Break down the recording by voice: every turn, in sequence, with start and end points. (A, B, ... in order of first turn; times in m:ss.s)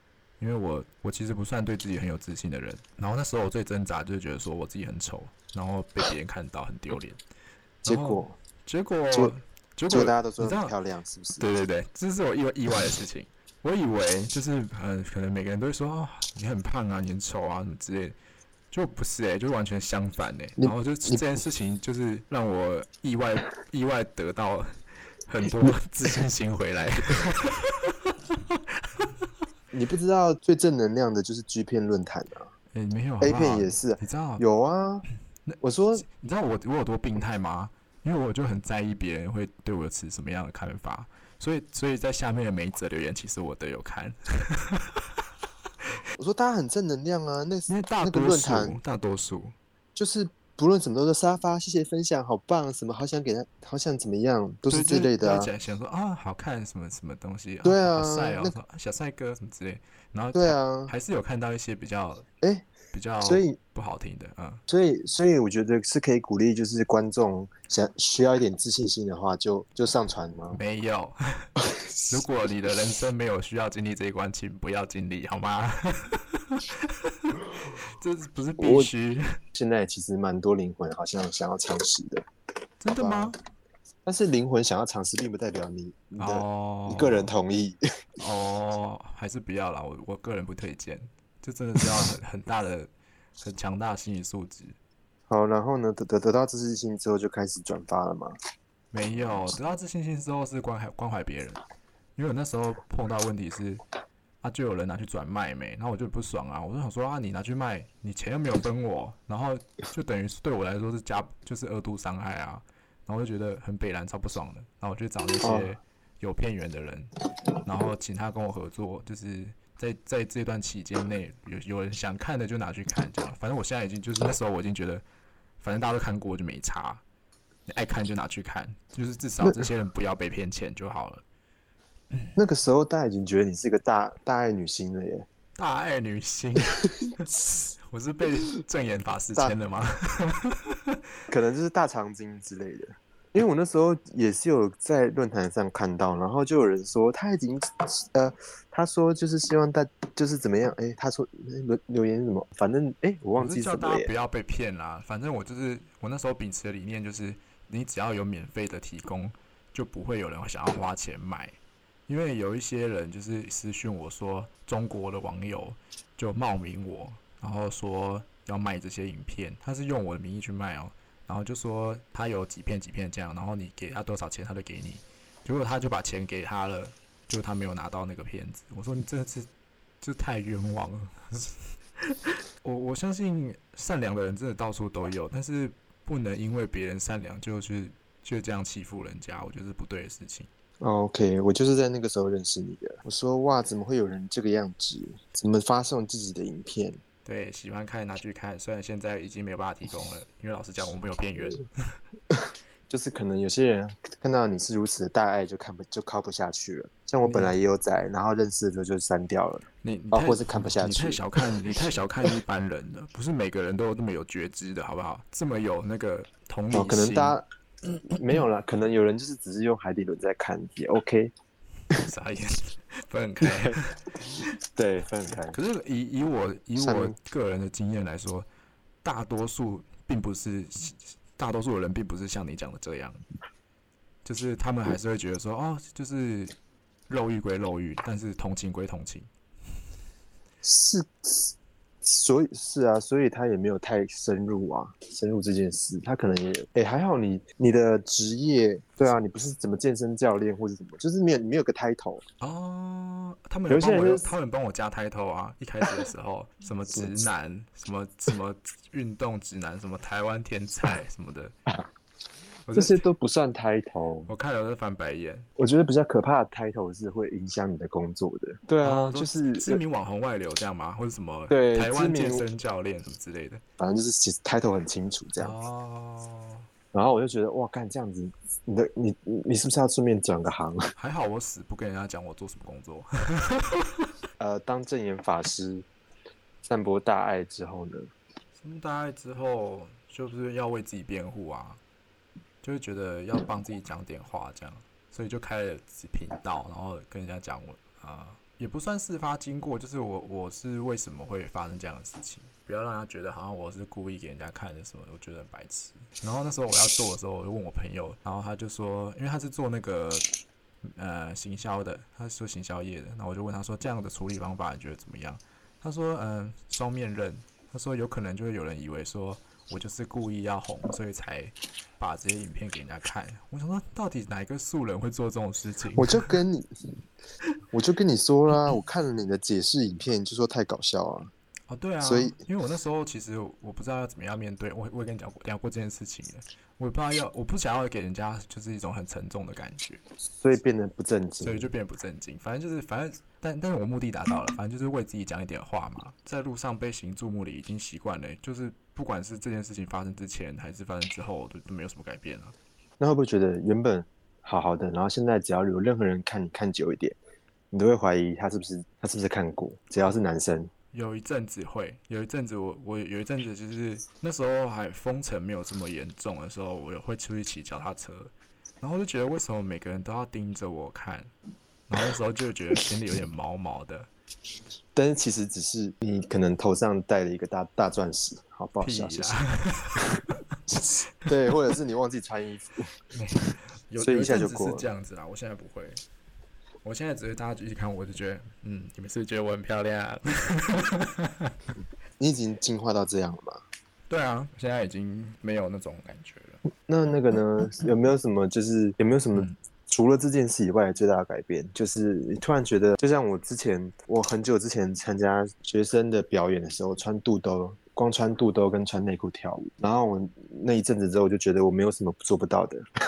0:00.4-0:07.2 A
0:07.8-0:10.7 A
0:07.8-0:08.4 B
0:09.9-0:11.5 B
0:11.4-0:18.2 A
0:18.7-0:29.3 A
0:20.6-0:21.2 B
0:29.7-0:32.5 B
0:32.7-0:34.4 A
0:33.2-0:35.0 B
0:35.4-0:45.2 A
0:35.6-0:36.0 B
0:46.2-0:48.8 B
0:47.7-0:49.5 A
0:50.0-0:55.5 B
0:54.7-1:02.2 A
0:57.6-0:58.5 B
1:00.3-1:00.9 B
1:02.4-1:02.7 B
1:02.9-1:04.6 A
1:03.2-1:03.6 B
1:04.7-1:10.6 B
1:10.5-1:11.5 A
1:11.7-1:12.1 B
1:12.1-1:19.4 A
1:18.6-1:18.9 B
1:19.5-1:22.2 B
1:22.8-1:23.4 A
1:23.0-1:23.3 B
1:24.0-1:27.8 B
1:26.2-1:27.3 A
1:28.2-1:34.8 A
1:35.3-1:38.3 B
1:38.9-1:41.6 A
1:42.2-1:43.8 A
1:44.4-1:57.1 A
1:55.4-1:55.8 B
1:57.6-2:05.0 A
2:05.6-2:07.0 A
2:07.7-2:11.2 A
2:12.3-2:15.2 B
2:15.6-2:21.0 A
2:21.3-2:34.1 B
2:33.4-2:41.6 A
2:42.1-2:59.5 A
3:00.0-3:10.5 A
3:10.8-3:17.0 B
3:17.2-3:22.0 A
3:22.9-3:31.6 B
3:27.2-3:27.5 A
3:29.8-3:37.4 A
3:36.7-3:41.3 B
3:41.9-3:44.0 A
3:43.4-3:43.8 B
3:44.3-3:45.6 B
3:45.5-3:48.5 A
3:46.8-3:47.1 B
3:49.0-3:53.2 A
3:54.2-3:56.5 A
3:57.1-3:59.3 A
4:00.6-4:12.2 B
4:12.4-4:21.5 A
4:13.7-4:14.3 B
4:16.9-4:17.2 B
4:22.7-4:23.0 A
4:22.7-4:24.3 B
4:24.3-4:25.5 A
4:25.6-4:29.8 B
4:28.8-4:33.6 A
4:31.5-4:32.4 B
4:33.8-4:35.5 B
4:35.4-4:36.7 A
4:36.9-4:40.9 B
4:41.0-4:44.1 A
4:44.4-4:45.8 B
4:46.6-4:48.1 B
4:48.6-4:51.8 A
4:52.6-5:10.2 A
5:10.8-5:26.4 A
5:26.0-5:26.7 B
5:27.7-5:31.3 B
5:31.7-5:40.0 A
5:32.0-5:32.4 B
5:40.3-5:41.7 B
5:41.4-5:52.5 A
5:53.0-5:57.2 B
5:57.7-6:00.7 B
6:00.9-6:11.3 A
6:11.9-6:14.1 A
6:14.9-6:19.4 B
6:18.8-6:20.5 A
6:20.2-6:22.9 B
6:23.1-6:26.0 A
6:24.0-6:24.9 B
6:26.8-6:31.6 A
6:32.2-6:33.6 B
6:34.1-6:36.6 A
6:36.9-6:52.8 B